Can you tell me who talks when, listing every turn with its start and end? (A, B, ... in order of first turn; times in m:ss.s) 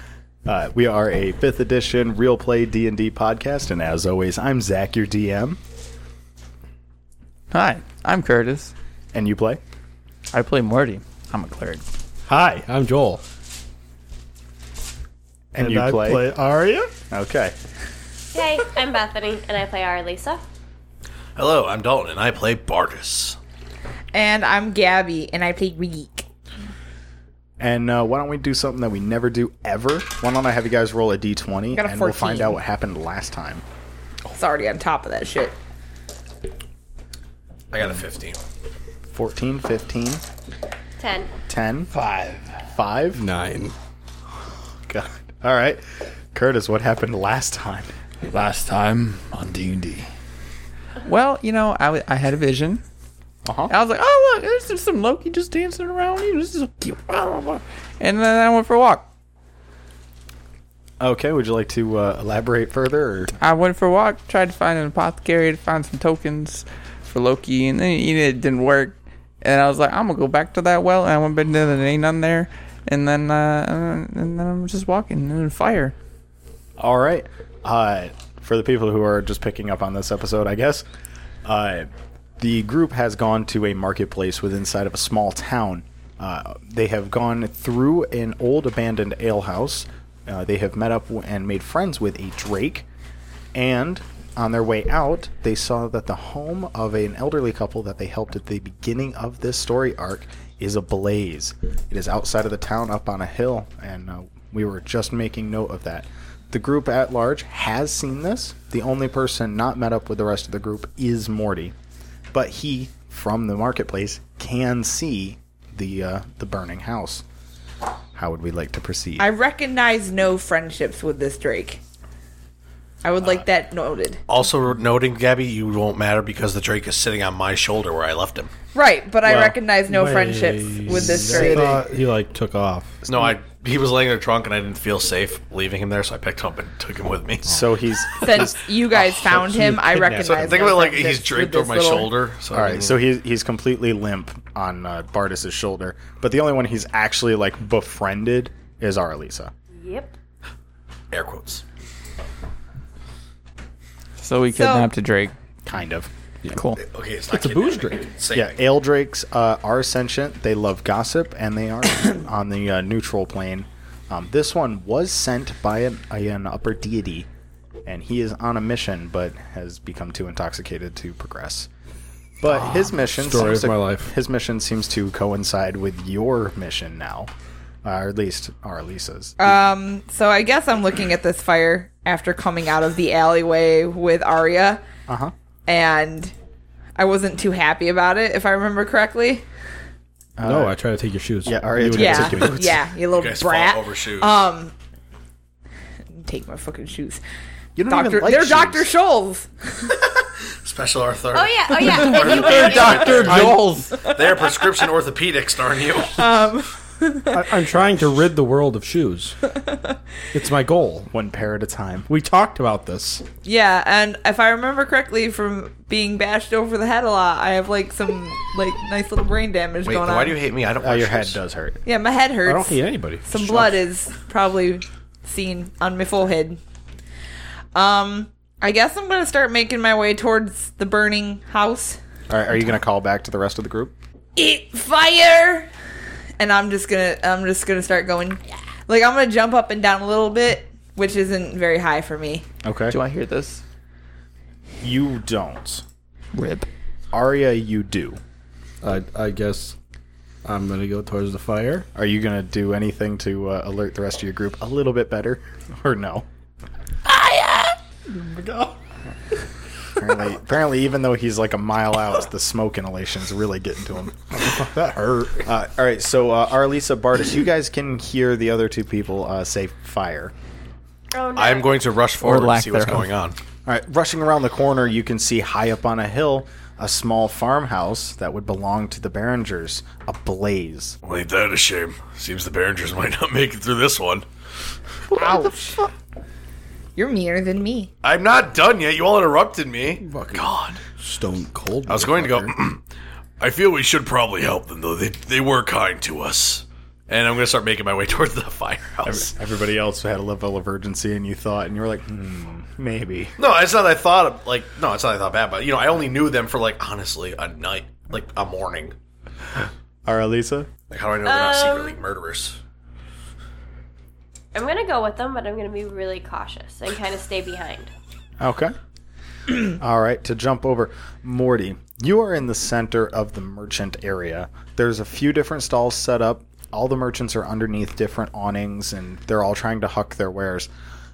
0:00.4-0:05.6 A
0:07.5-0:08.7 B
0:09.1-0:09.6 A
0:10.3-0:11.8 B
0:12.3-0:13.2 C
0:15.5-0:16.9 C
0:15.6-0:16.3 A
0:17.1-0:17.5 A
0:18.3-0:20.4 D
0:21.4-0:23.4 E
0:24.1-0:26.2 F
0:27.6-0:33.6 A
0:31.7-0:32.6 F
0:34.3-0:35.6 F
0:37.7-0:38.4 E
0:39.1-0:40.2 A
0:41.0-0:41.3 D
0:41.5-0:41.9 A
0:41.9-0:42.6 B
0:42.7-0:43.2 A
0:43.1-0:43.7 C
0:44.9-0:47.9 A
0:48.3-0:50.1 B
0:51.0-0:52.8 B
0:53.4-0:53.7 A
0:53.7-0:59.1 B
1:01.0-1:03.3 A
1:03.4-1:15.9 B
1:16.8-1:20.8 A
1:21.4-1:32.8 A
1:33.5-1:51.7 A
1:52.3-1:57.2 A
1:58.1-1:59.3 A
1:59.2-2:01.8 F
2:03.0-2:04.2 F
2:04.3-2:08.5 E
2:08.7-2:11.8 F
2:09.2-2:09.6 A
2:09.9-2:13.3 C
2:13.0-2:17.5 E
2:17.5-2:19.4 A
2:18.2-2:22.1 F
2:19.3-2:20.8 C
2:20.2-2:23.0 E
2:22.5-2:29.5 A
2:29.7-2:30.1 D
2:31.1-2:31.6 E
2:34.2-2:35.3 B
2:34.5-2:34.9 F
2:35.7-2:36.1 A
2:36.5-2:36.8 B
2:36.8-2:38.6 E
2:37.3-2:38.1 C
2:38.3-2:47.3 A
2:47.8-2:51.7 A
2:52.4-2:57.3 A
2:53.0-2:54.1 C
2:57.8-2:59.6 A
2:59.4-3:04.8 F
3:05.1-3:05.3 A
3:05.7-3:06.3 F
3:07.0-3:09.4 F
3:10.4-3:10.8 A
3:10.4-3:12.6 C
3:11.4-3:12.8 A
3:12.0-3:14.7 F
3:13.1-3:14.4 E
3:16.1-3:17.2 F
3:17.8-3:18.9 A
3:17.9-3:19.9 F
3:20.5-3:23.6 E
3:21.3-3:23.3 D
3:21.9-3:24.0 B
3:23.1-3:23.6 C
3:23.9-3:24.7 F
3:24.1-3:26.2 E
3:26.1-3:27.5 F
3:27.3-3:29.4 C
3:29.7-3:29.9 F
3:30.3-3:31.1 C
3:31.1-3:32.1 A
3:32.1-3:33.2 C
3:33.4-3:40.4 F
3:39.8-3:41.4 E
3:40.8-3:41.8 A
3:41.8-3:46.6 F
3:42.4-3:43.8 C
3:47.7-3:52.0 F
3:52.3-3:53.9 A
3:54.4-3:55.7 F
3:56.4-4:02.4 F
4:02.6-4:03.0 A
4:02.9-4:03.6 B
4:04.8-4:05.8 A
4:06.3-4:06.7 B
4:07.1-4:08.2 A
4:08.8-4:09.7 C
4:10.4-4:11.9 C
4:11.9-4:16.2 A
4:18.1-4:18.7 C
4:20.0-4:24.3 A
4:24.3-4:25.4 C
4:25.4-4:30.3 A
4:31.1-4:32.0 D
4:31.3-4:33.4 E
4:32.2-4:33.1 B
4:33.6-4:41.0 A
4:41.0-4:44.2 E
4:45.1-4:45.9 F
4:47.0-4:47.9 F
4:48.0-4:50.8 E
4:50.0-4:52.5 C
4:51.9-4:52.8 E
4:53.4-4:59.3 E
4:59.0-5:03.3 A
5:03.4-5:09.0 E
5:10.0-5:10.7 A
5:10.9-5:12.6 E
5:11.2-5:12.0 D
5:14.5-5:17.9 D
5:18.4-5:18.7 A
5:19.6-5:30.7 A